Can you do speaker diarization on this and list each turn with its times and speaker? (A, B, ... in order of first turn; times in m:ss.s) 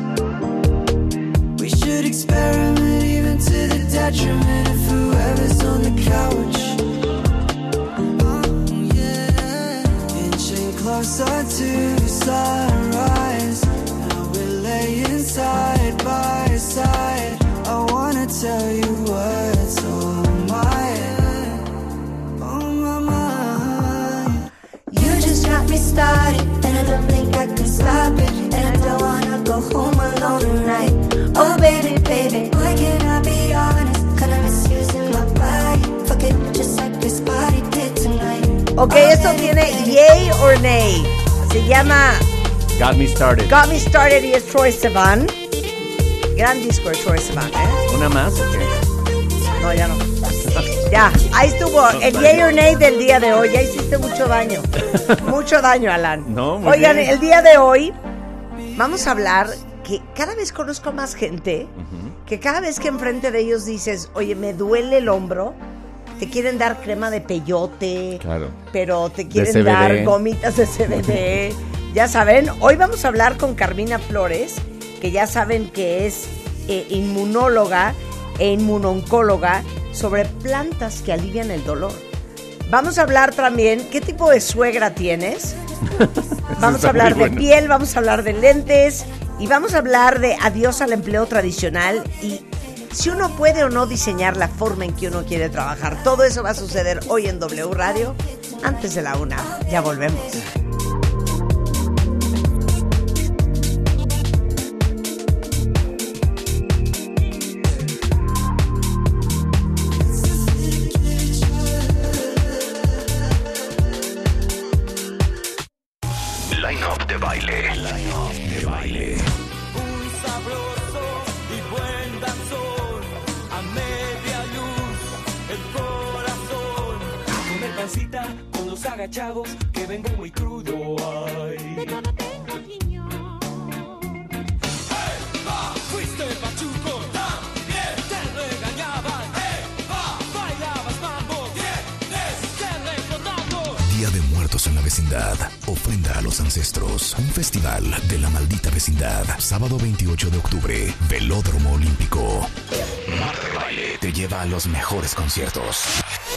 0:01.6-0:06.8 A
0:08.1-0:21.7 A
0:22.4-0:24.5 A
0:24.9-0:40.0 B
0:38.7-0:42.3 C
0:42.7-0:43.6 D
0:43.5-0:45.3 C
0:46.3-0:47.8 C
0:47.9-0:48.7 D
0:49.6-0:58.0 C
0:50.5-0:50.8 D
0:51.9-0:52.6 D
0:56.2-0:57.2 D
0:58.7-1:01.7 C
1:01.8-1:02.1 D
1:02.2-1:05.6 C
1:06.2-1:22.0 C
1:08.2-1:08.6 D
1:09.3-1:10.2 D
1:10.9-1:11.3 D
1:22.7-1:25.6 C
1:25.9-1:27.5 D
1:26.6-1:40.4 C
1:56.4-1:59.3 E
1:59.8-2:02.8 F
2:05.7-2:11.7 F
2:16.0-2:16.7 F
2:18.3-2:18.8 F
2:23.5-2:32.5 E
2:33.0-2:35.9 E